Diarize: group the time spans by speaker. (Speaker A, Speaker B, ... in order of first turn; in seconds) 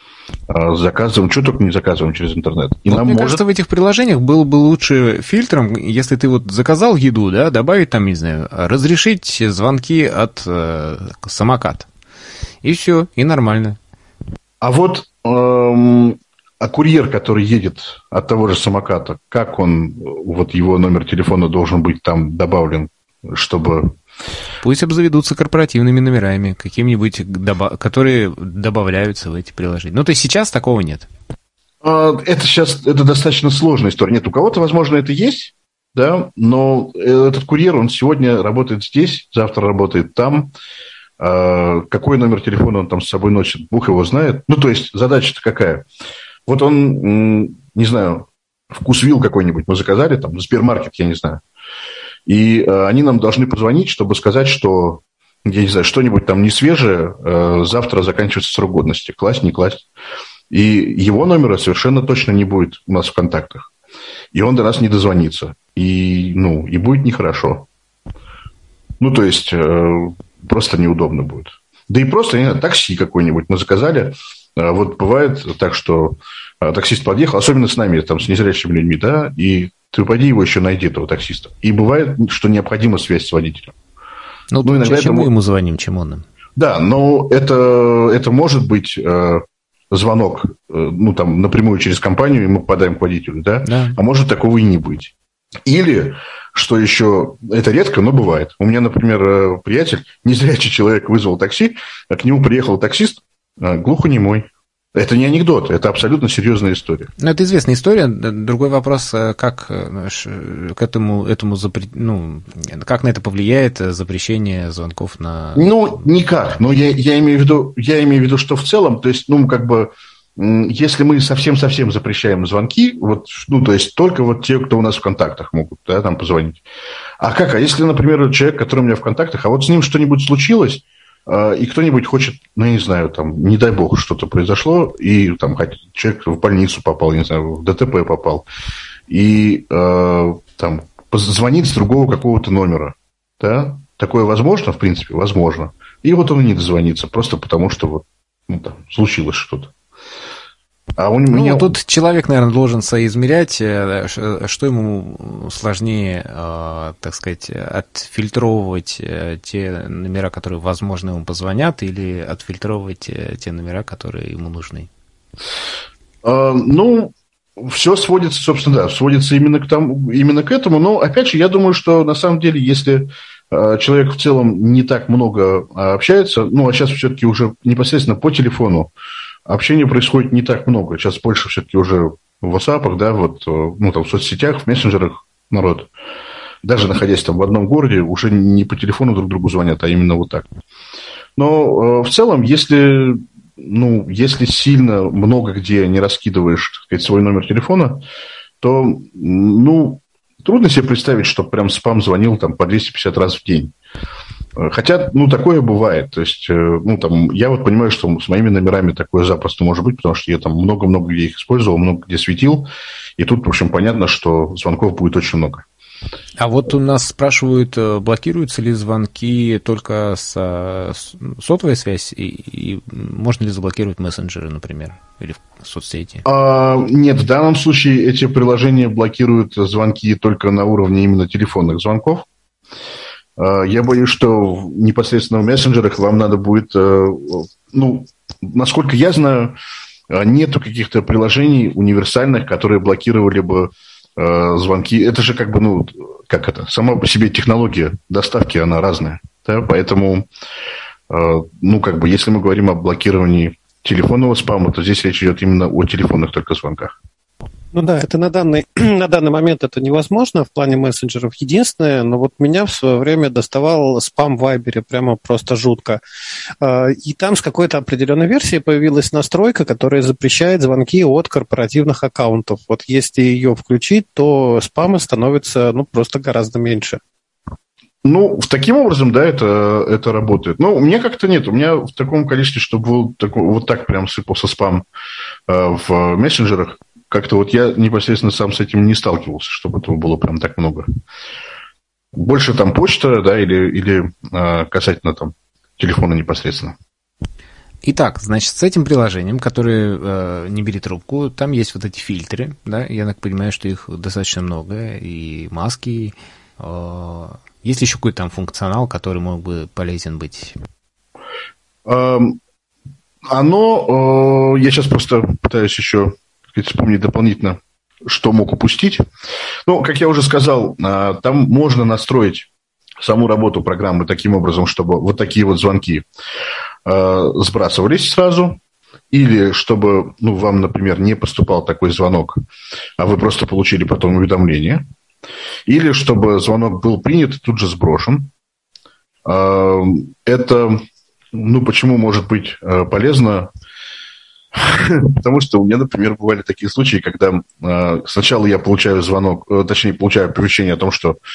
Speaker A: 0.5-3.4, 14.6-23.9, 31.8-40.5, 41.2-45.8, 46.5-51.4, 52.2-59.9, 60.5-63.7, 64.3-67.7, 69.0-83.8, 84.6-85.3, 86.5-95.1, 95.7-107.1, 115.5-126.6, 127.2-138.4, 139.1-149.7, 151.0-151.7, 166.2-178.9, 179.4-185.9, 186.6-190.4, 191.4-198.0, 198.6-203.7, 204.6-215.7, 226.2-232.2, 233.4-239.6, 240.1-250.3, 251.1-256.9, 278.0-284.8, 285.5-290.9, 292.1-296.8, 311.8-312.4, 313.3-319.0, 319.6-322.5, 323.0-326.1, 326.8-328.6, 329.1-332.4, 333.0-334.8, 335.7-338.3, 339.2-343.5, 344.5-351.2
Speaker B: 2.9-11.9, 12.6-13.8, 24.6-31.1, 84.5-86.2, 93.7-94.0, 107.2-115.7, 151.3-164.9, 216.4-226.2, 297.8-310.6
Speaker C: 257.7-266.0, 266.6-277.0